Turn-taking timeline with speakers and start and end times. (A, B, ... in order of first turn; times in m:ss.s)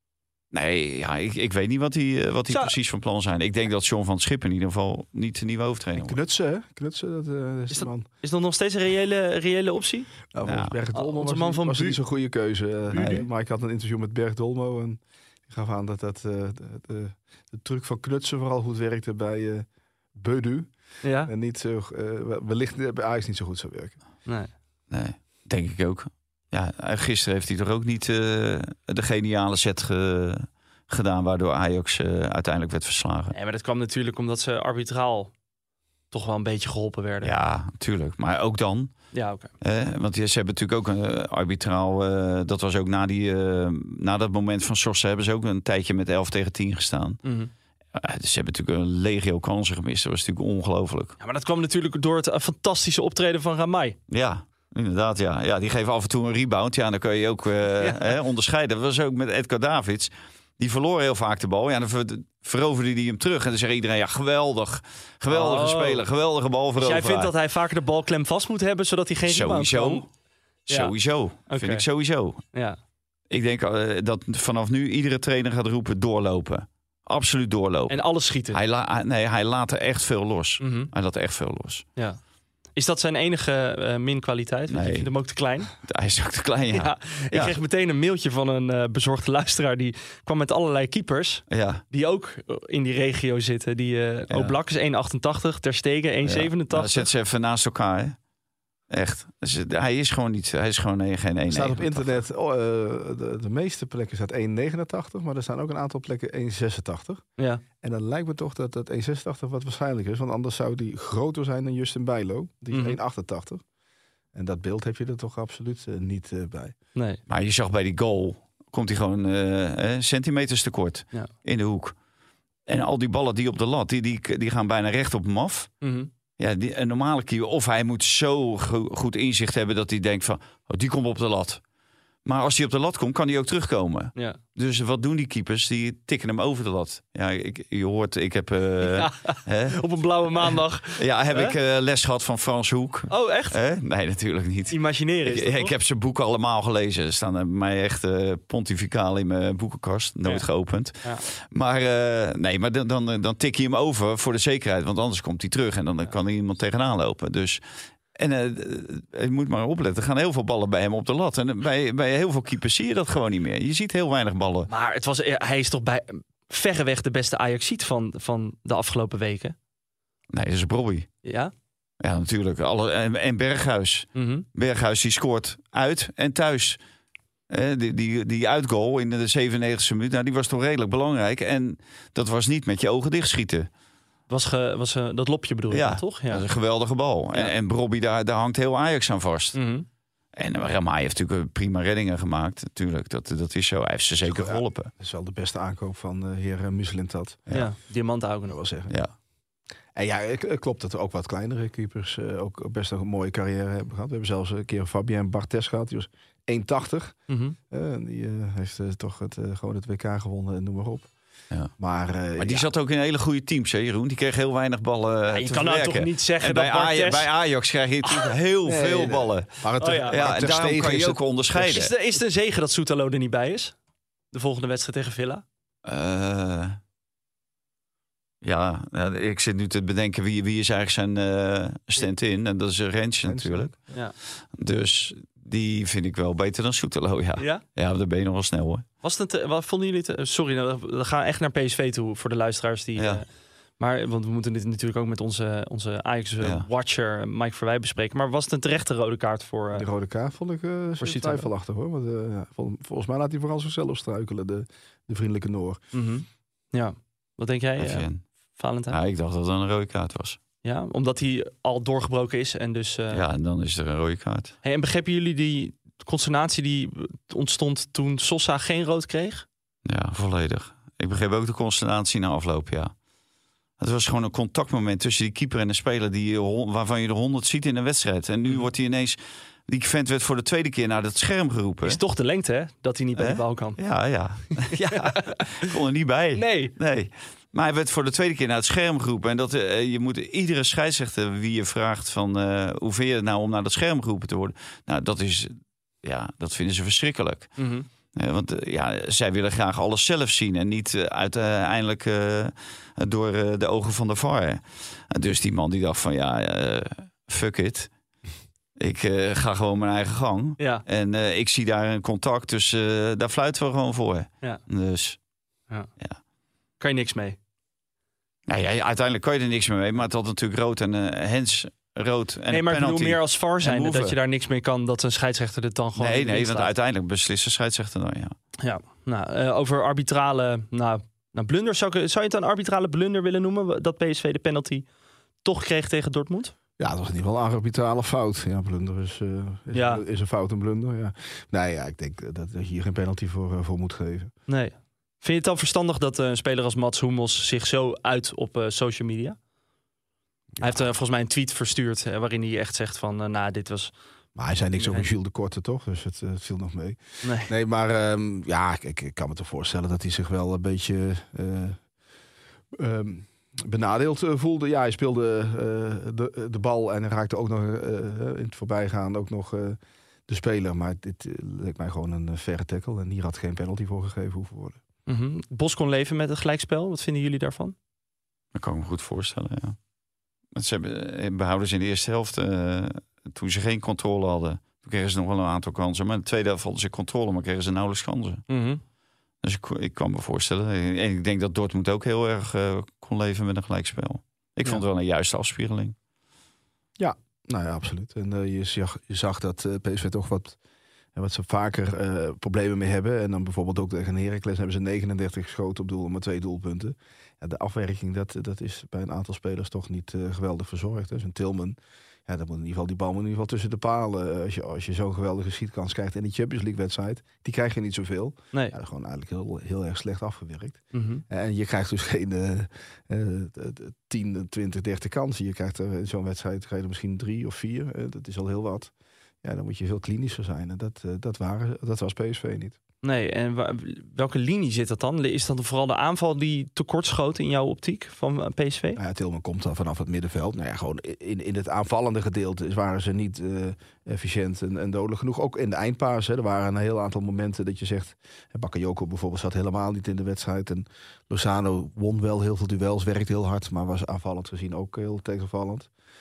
0:00.5-0:06.2 A
0:02.5-0:02.8 B
0:06.0-0:08.1 C
0:07.7-0:10.1 B
0:10.3-0:20.7 C
0:10.4-0:10.8 A
0:10.9-0:12.0 B
0:12.9-0:13.2 B
0:13.0-0:13.2 A
0:21.0-0:21.3 B
0:21.2-0:24.0 C
0:24.2-0:24.5 B
0:24.9-0:33.4 A
0:33.3-0:35.3 B
0:36.1-0:37.3 B
0:37.2-0:38.9 A
0:39.1-0:39.5 B
0:39.6-0:47.2 A
0:47.2-0:47.5 B
0:48.0-0:51.2 A
0:51.2-0:54.0 B
0:54.1-1:07.3 A
0:57.8-0:58.2 B
1:05.3-1:06.0 B
1:06.8-1:10.0 B
1:09.3-1:10.1 A
1:10.7-1:12.4 A
1:11.5-1:11.8 B
1:13.3-1:18.0 A
1:17.9-1:18.6 B
1:18.5-1:21.8 A
1:20.6-1:20.9 B
1:22.8-1:25.7 B
1:24.7-1:25.1 A
1:25.8-1:27.6 A
1:26.7-1:37.1 B
1:31.5-1:31.8 A
1:34.3-1:34.6 A
1:36.2-1:38.2 A
1:38.9-1:42.2 A
1:41.5-1:47.2 C
1:47.8-1:53.6 C
1:52.7-1:53.0 B
1:54.3-1:56.8 C
1:57.0-1:57.2 B
1:57.3-2:01.9 A
2:02.7-2:05.7 A
2:05.8-2:06.1 B
2:06.4-2:11.6 A
2:12.2-2:19.8 A
2:18.8-2:21.6 B
2:20.4-2:37.6 A
2:23.1-2:23.6 B
2:24.7-2:25.7 B
2:38.2-2:44.7 A
2:44.7-2:49.6 B
2:50.3-2:51.1 A
2:51.2-2:51.5 B
2:52.0-2:56.8 A
2:54.2-2:54.5 B
2:57.5-3:03.7 A
3:04.3-3:06.4 B
3:05.7-3:09.6 A
3:09.6-3:09.9 B
3:10.4-3:14.9 A
3:14.2-3:17.5 C
3:17.5-3:18.6 B
3:18.5-3:19.0 C
3:20.0-3:27.2 C
3:27.3-3:27.6 B
3:27.7-3:31.1 C
3:31.8-3:32.7 C
3:32.4-3:41.9 A
3:35.3-3:37.3 B
3:38.0-3:38.3 B
3:38.6-3:41.2 C
3:39.8-3:40.2 B
3:41.5-3:43.8 B
3:44.3-3:45.4 B
3:45.8-3:46.8 A
3:48.4-3:53.8 A
3:53.2-3:53.8 C
3:54.6-3:58.8 A
3:57.4-3:57.6 B
3:59.0-4:03.2 B
4:03.0-4:03.2 A
4:03.8-4:09.9 B
4:06.4-4:06.7 A
4:09.7-4:15.8 C
4:11.0-4:11.5 B
4:15.9-4:19.0 B
4:17.8-4:18.2 A
4:18.9-4:20.4 A
4:20.6-4:23.2 B
4:23.1-4:24.6 A
4:24.6-4:29.5 B
4:29.9-4:32.9 A
4:33.8-4:42.0 A
4:41.8-4:43.8 B
4:43.2-4:57.5 A
4:44.7-4:45.7 B
4:46.4-4:46.8 B
4:57.6-4:57.9 B
4:58.2-5:07.9 A
5:08.8-5:15.2 A
5:10.6-5:10.8 B
5:16.8-5:17.4 B
5:18.5-5:24.2 A
5:22.5-5:26.7 B
5:26.0-5:28.4 A
5:28.6-5:34.9 B
5:35.4-5:36.5 B
5:36.8-5:44.3 C
5:39.7-5:40.0 B
5:44.5-5:49.4 B
5:50.6-5:53.9 B
5:54.4-6:01.8 C
5:54.8-5:55.1 B
5:57.2-5:57.5 B
6:02.7-6:14.8 C
6:15.1-6:17.8 B
6:18.5-6:19.8 A
6:20.5-6:28.4 A
6:28.5-6:28.8 B
6:29.4-6:36.0 A
6:37.0-6:40.6 C
6:41.2-7:08.9 C
7:00.9-7:01.2 B
7:09.4-7:12.8 C
7:13.0-7:19.0 B
7:19.0-7:35.9 C